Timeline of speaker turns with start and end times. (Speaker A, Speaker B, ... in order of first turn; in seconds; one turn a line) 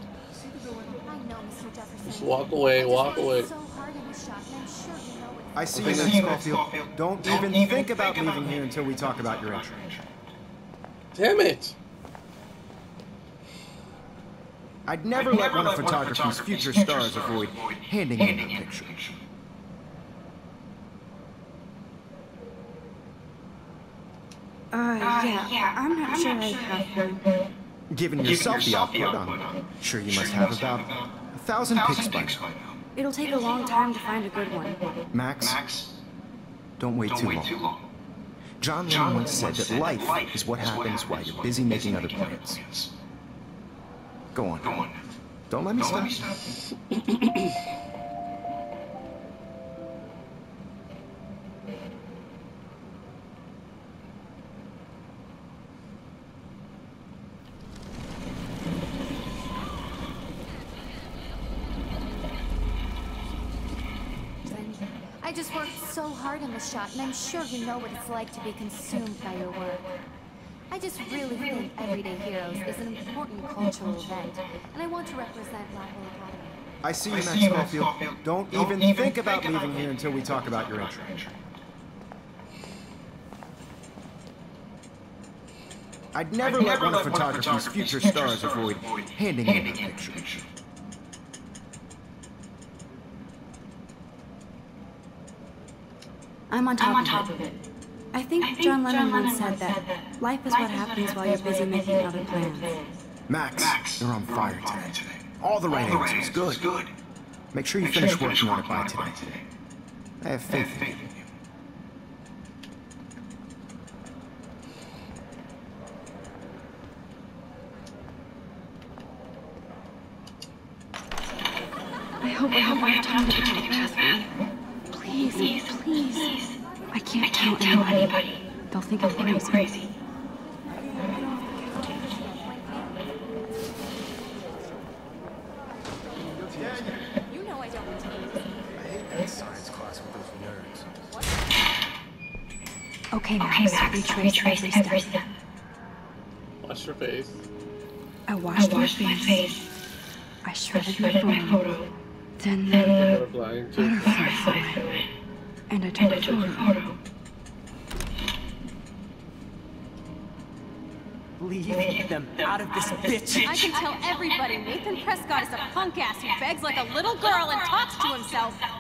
Speaker A: 1.1-6.2
Speaker B: 2.0-3.5
Speaker C: 5.5-10.0
Speaker B: 5.8-6.2
Speaker B: 11.2-11.8
Speaker C: 14.9-19.0
Speaker D: 24.7-27.3
Speaker C: 27.9-32.4
Speaker D: 33.0-34.8
Speaker C: 35.1-35.7
Speaker C: 36.8-37.7
Speaker C: 38.6-42.7
Speaker C: 44.3-44.9
Speaker C: 45.5-46.2
Speaker A: 64.5-69.9
Speaker A: 70.7-76.6
Speaker C: 76.8-81.3
Speaker C: 86.1-90.4
Speaker D: 96.5-97.4
Speaker D: 98.1-102.8
Speaker C: 103.3-106.7
Speaker C: 107.5-109.2
Speaker C: 110.2-111.1
Speaker D: 122.2-124.3
Speaker D: 124.9-126.4
Speaker D: 126.9-129.9
Speaker D: 130.8-131.9
Speaker C: 136.2-137.1
Speaker A: 137.3-138.5
Speaker C: 138.7-141.1
Speaker D: 143.1-145.2
Speaker B: 146.6-147.4
Speaker D: 148.3-149.6
Speaker D: 150.4-151.7
Speaker D: 152.4-153.0
Speaker B: 153.0-154.1
Speaker D: 153.8-154.9
Speaker D: 155.7-156.8
Speaker E: 161.4-163.8
Speaker F: 163.4-168.6